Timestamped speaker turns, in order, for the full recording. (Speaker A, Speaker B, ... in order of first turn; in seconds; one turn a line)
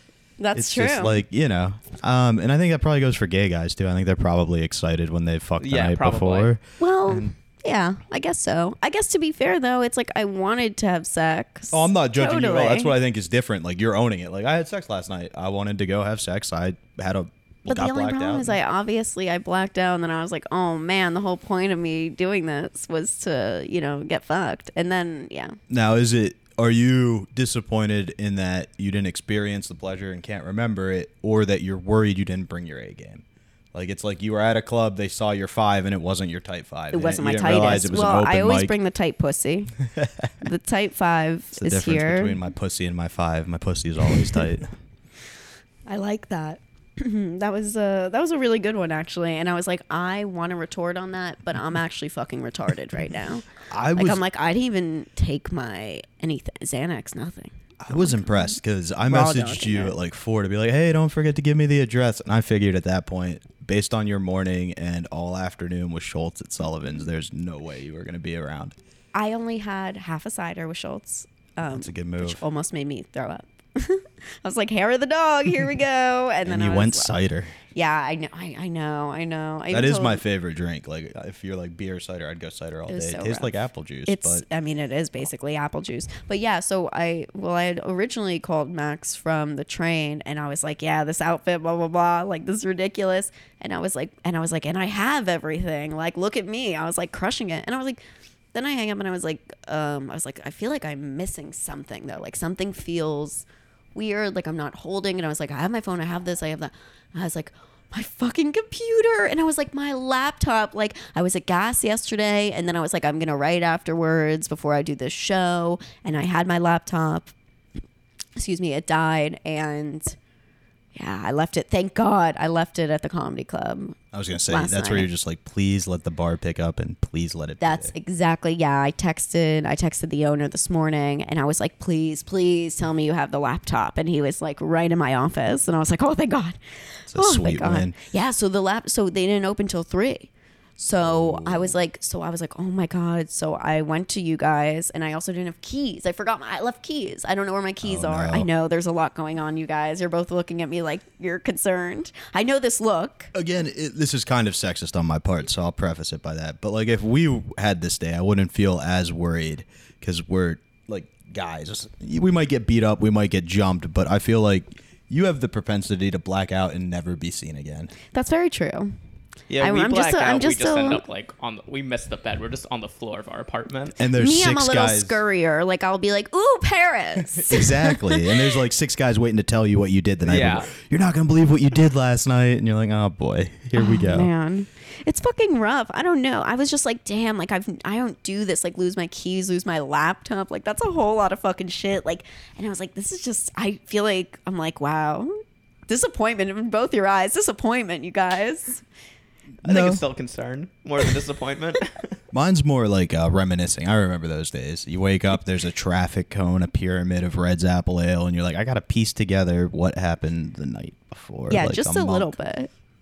Speaker A: 0.4-1.2
Speaker B: 0.5-7.3
Speaker C: 5.6-6.5
Speaker A: 6.8-12.9
Speaker B: 11.7-18.6
Speaker A: 17.7-25.6
Speaker B: 25.7-38.7
Speaker A: 36.9-39.7
Speaker B: 40.0-40.3
Speaker A: 40.4-42.4
Speaker B: 41.5-44.7
Speaker A: 45.9-58.5
Speaker B: 53.7-54.2
Speaker B: 57.8-68.8
Speaker A: 59.1-60.0
Speaker A: 69.1-77.1
Speaker B: 71.7-72.4
Speaker B: 76.5-77.6
Speaker A: 77.7-80.2
Speaker B: 79.7-84.5
Speaker A: 82.9-83.5
Speaker A: 84.1-98.0
Speaker A: 98.5-117.3
Speaker A: 118.4-120.2
Speaker A: 121.0-124.0
Speaker B: 124.1-127.9
Speaker A: 124.5-125.1
Speaker A: 127.6-153.3
Speaker B: 137.1-138.0
Speaker B: 141.0-141.8
Speaker B: 147.8-148.5
Speaker B: 153.3-167.9
Speaker A: 168.1-168.9
Speaker C: 169.5-174.0
Speaker A: 169.6-171.0
Speaker B: 174.0-175.2
Speaker A: 174.2-178.5
Speaker B: 177.4-184.3
Speaker C: 180.3-180.7
Speaker A: 183.8-195.3
Speaker A: 195.9-198.8
Speaker B: 199.6-200.0
Speaker C: 199.6-202.1
Speaker B: 202.3-212.4
Speaker A: 211.5-212.7